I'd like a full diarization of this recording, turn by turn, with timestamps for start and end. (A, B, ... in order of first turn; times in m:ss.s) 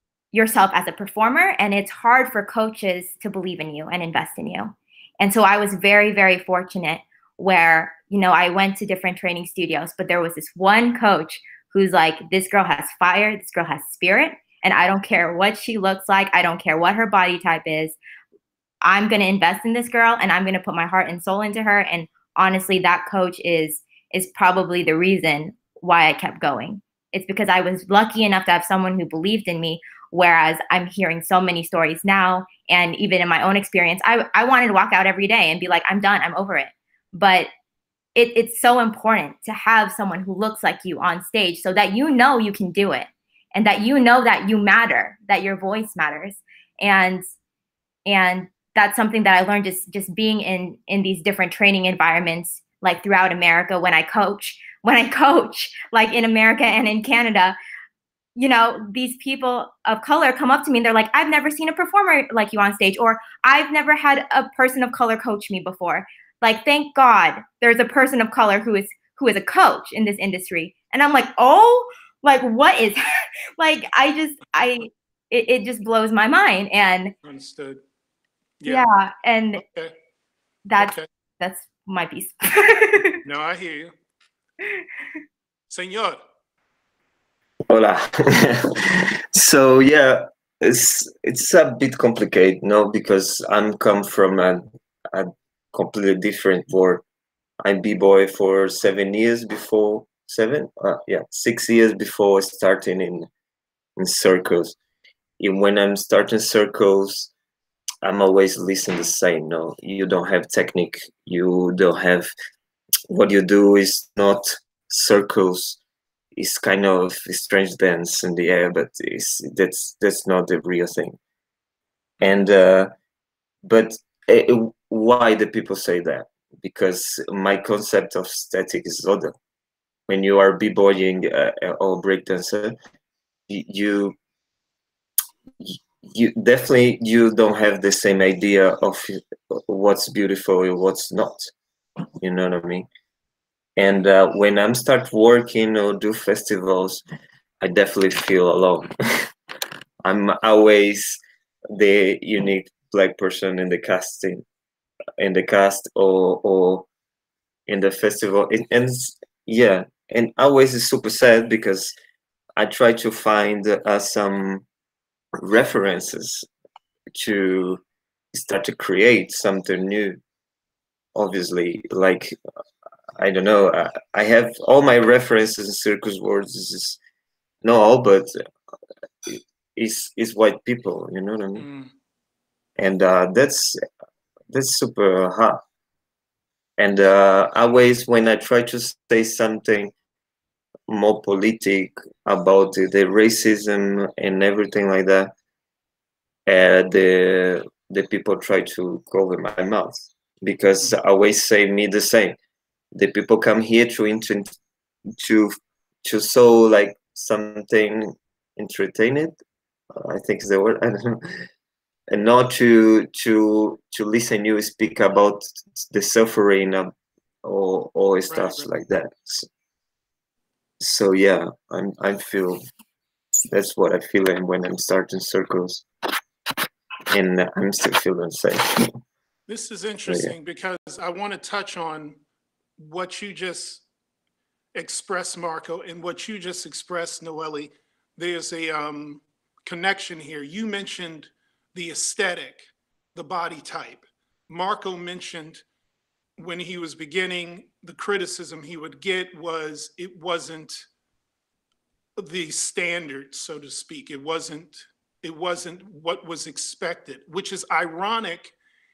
0:00.3-0:18.0 A
0:18.8-0:37.5 A
0:38.1-0:47.2 A
0:48.0-0:57.6 A
0:58.4-1:13.0 A
1:13.6-1:17.1 A
1:17.2-1:17.8 B
1:18.6-1:18.9 B
1:18.6-1:19.6 A
1:19.6-1:19.9 B
1:20.7-1:23.2 A
1:20.8-1:21.1 B
1:23.2-1:23.9 B
1:25.7-1:26.2 B
1:27.7-1:37.0 C
1:37.6-1:43.3 C
1:44.0-1:44.8 C
1:45.4-1:47.3 C
1:48.0-1:52.3 C
1:53.1-1:55.8 C
1:56.4-2:01.2 C
2:02.2-2:02.9 C
2:03.6-2:09.3 C
2:10.1-2:12.8 C
2:13.5-2:14.2 C
2:15.6-2:21.5 C
2:22.2-2:22.9 C
2:23.8-2:27.0 C
2:27.6-2:29.3 C
2:30.0-2:31.2 C
2:31.7-2:34.4 C
2:35.2-2:36.9 C
2:37.7-2:41.9 C
2:42.6-2:44.6 C
2:45.4-2:46.5 C
2:47.1-2:47.8 C
2:48.3-2:50.2 C
2:51.1-2:52.4 C
2:53.2-2:57.0 C
2:57.6-2:58.4 C
2:59.2-3:01.7 C
3:01.6-3:01.9 B
3:02.8-3:03.8 C
3:04.5-3:05.6 C
3:06.8-3:09.9 C
3:10.9-3:15.3 C
3:16.5-3:22.4 C
3:22.9-3:24.5 C
3:25.2-3:29.4 C
3:29.9-3:31.4 C
3:32.1-3:36.9 C
3:37.4-3:39.5 C
3:38.3-3:38.7 B
3:40.8-3:42.6 C
3:43.5-3:45.8 C
3:47.1-3:49.0 C
3:49.5-3:52.2 B
3:50.1-3:50.3 C
3:52.8-3:53.8 B
3:54.7-4:05.6 B
4:06.4-4:10.9 B
4:12.2-4:18.6 B